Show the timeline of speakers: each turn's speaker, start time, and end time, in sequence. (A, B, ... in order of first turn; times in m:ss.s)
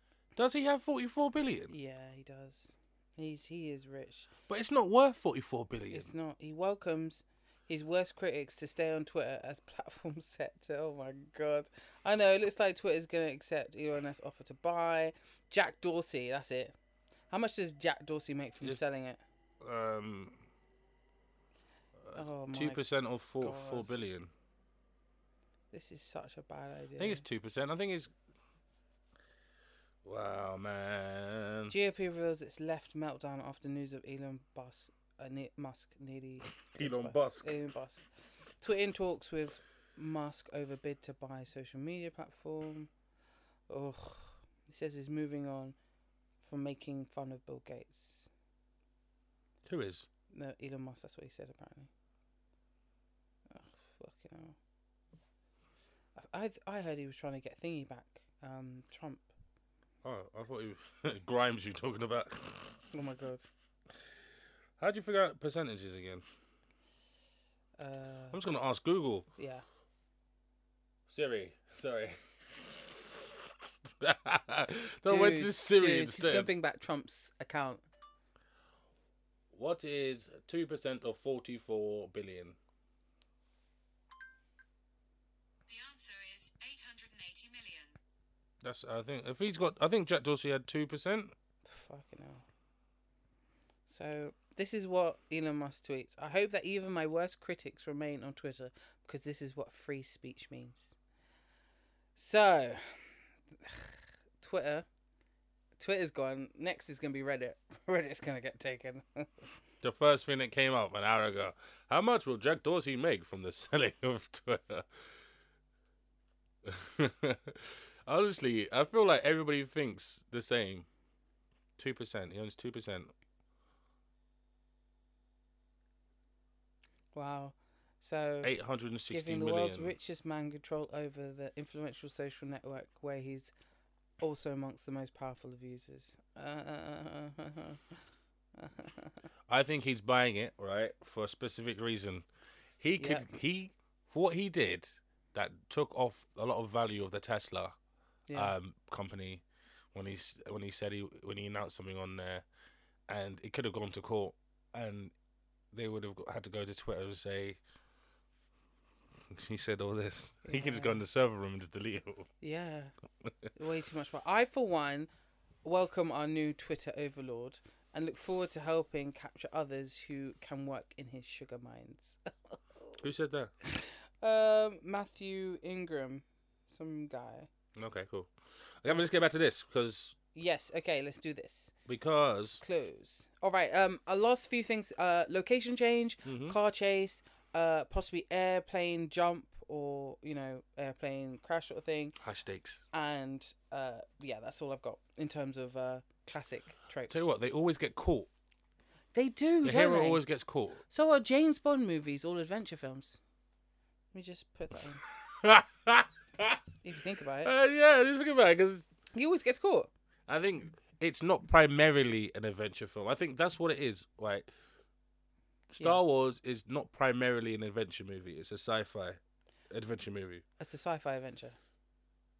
0:00.4-0:01.7 A
0:01.7-0:04.3 B
0:04.5-0:06.1 A
0:05.9-0:16.7 B
0:17.3-0:19.2 B
0:19.6-0:20.4 A
0:22.0-0:24.3 A
0:22.1-0:22.8 B
0:23.4-0:23.9 B
0:25.7-0:27.2 B
0:27.0-0:28.1 A
0:30.0-0:31.7 A
0:31.7-0:38.0 B
0:36.7-0:37.5 A
0:38.6-0:42.9 B
0:43.7-0:45.8 B
0:46.4-0:48.3 B
0:49.6-0:50.1 A
0:50.3-0:51.9 B
0:53.5-0:54.6 B
0:56.2-0:59.3 B
1:00.0-1:02.8 A
1:02.9-1:03.5 B
1:04.8-1:06.2 A
1:07.8-1:08.4 B
1:08.3-1:09.2 A
1:09.4-1:09.6 B
1:11.1-1:16.5 A
1:15.0-1:17.8 B
1:19.5-1:22.6 A
1:25.7-1:28.0 C
1:28.6-1:31.3 A
1:31.6-1:32.4 B
1:33.9-1:40.9 B
1:42.2-1:43.0 B
1:43.6-1:44.8 B
1:45.8-1:49.5 B
1:49.8-1:54.9 A
1:56.6-2:00.8 A
2:01.8-2:03.1 A
2:07.1-2:08.5 B
2:08.4-2:09.9 A
2:09.1-2:13.5 B
2:14.2-2:17.8 B
2:18.6-2:19.2 B
2:19.5-2:22.2 A
2:22.8-2:27.7 A
2:23.0-2:23.2 B
2:28.3-2:28.5 B
2:28.3-2:32.4 A
2:33.1-2:35.1 A
2:35.7-2:37.6 A
2:39.3-2:42.3 A
2:40.4-2:41.0 B
2:42.4-2:42.9 B
2:43.5-2:45.1 B
2:45.6-2:53.0 B
2:53.0-2:53.5 A
2:53.7-2:57.5 B
2:57.8-3:00.2 A
3:00.3-3:01.7 B
3:01.8-3:02.6 A
3:02.6-3:12.2 B
3:06.2-3:06.6 A
3:12.2-3:12.8 A
3:12.9-3:17.3 B
3:17.1-3:18.3 A
3:19.1-3:20.2 B
3:19.6-3:20.8 A
3:20.9-3:23.2 B
3:24.1-3:25.0 B
3:25.1-3:26.6 A
3:26.8-3:27.5 B
3:27.4-3:28.9 A
3:29.1-3:29.9 B
3:30.3-3:34.5 A
3:35.7-3:39.2 A
3:39.7-3:40.4 A
3:40.6-3:41.6 B